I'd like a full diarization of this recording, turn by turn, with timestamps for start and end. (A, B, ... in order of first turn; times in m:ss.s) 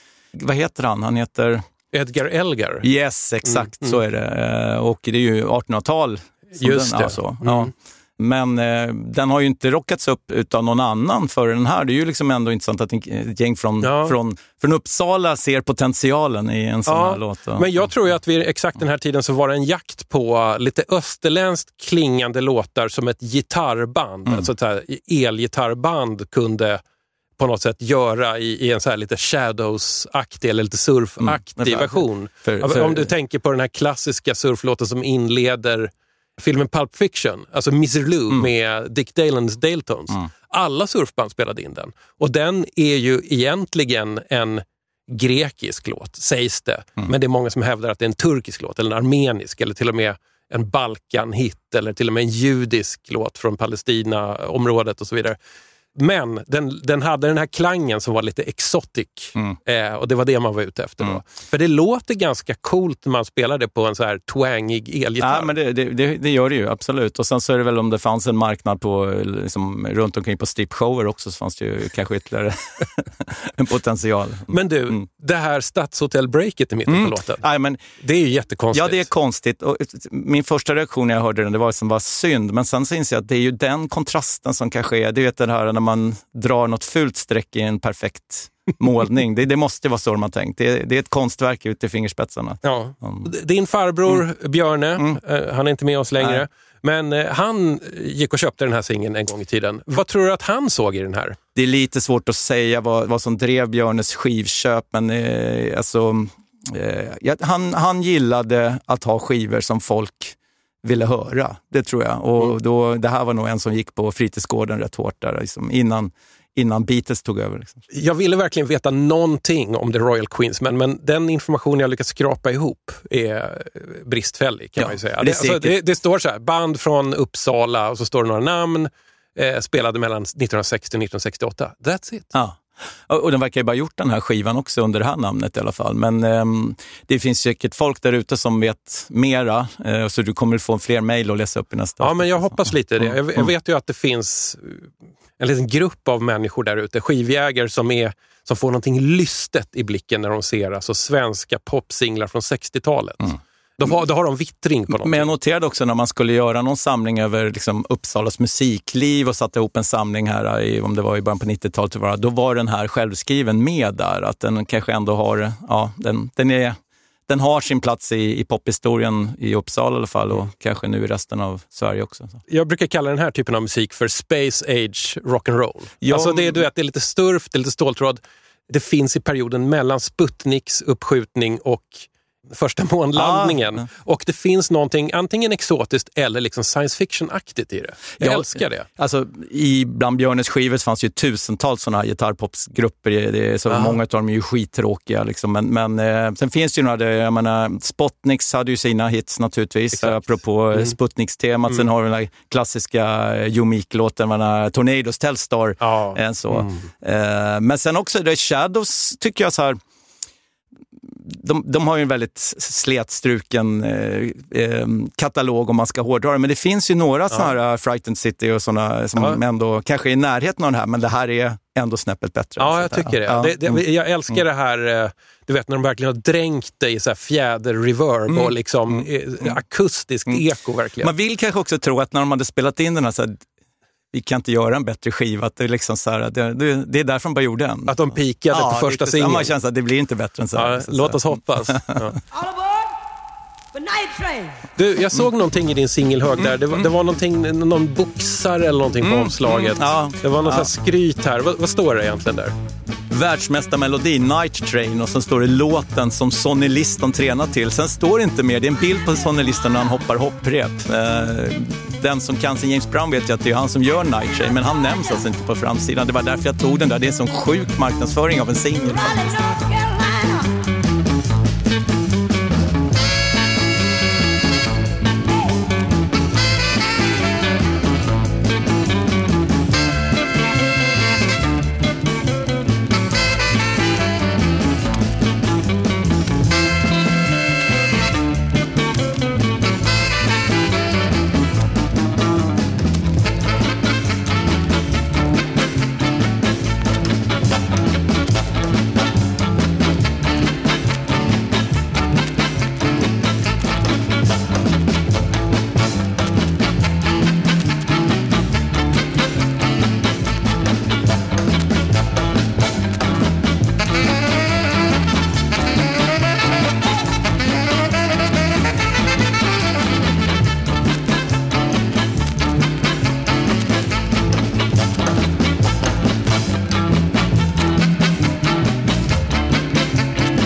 0:00.3-0:01.6 A
0:01.9-0:02.9 B
0:02.8-0:17.8 A
0:03.4-0:04.0 B
0:06.5-0:07.7 B
0:13.8-0:14.2 B
0:16.9-0:26.8 B
0:27.4-0:55.4 B
0:31.2-0:33.1 A
0:56.0-1:05.6 B
1:05.2-1:15.0 A
1:14.5-1:17.4 B
1:16.9-1:17.8 A
1:18.0-1:19.1 B
1:18.7-1:33.3 A
1:32.6-1:41.4 B
1:36.2-1:36.5 A
1:41.6-1:57.8 A
1:57.9-2:12.3 B
2:04.8-2:05.7 A
2:12.3-2:23.5 A
2:22.0-2:35.3 B
2:34.9-2:52.4 A
2:52.5-3:08.9 B
2:56.0-2:56.6 A
3:03.1-3:03.8 A
3:08.2-3:29.8 A
3:13.7-3:14.0 B
3:20.0-3:20.2 B
3:25.8-3:26.9 B
3:31.0-3:43.8 A
3:42.6-3:51.1 B
3:48.3-3:49.6 A
3:51.0-3:53.5 A
3:54.1-4:02.1 A
3:57.9-3:59.5 B
4:00.6-4:02.2 B
4:02.3-4:02.9 C
4:03.7-4:04.6 C
4:04.8-4:12.6 B
4:09.0-4:10.7 A
4:13.1-4:29.2 A
4:29.0-4:30.5 C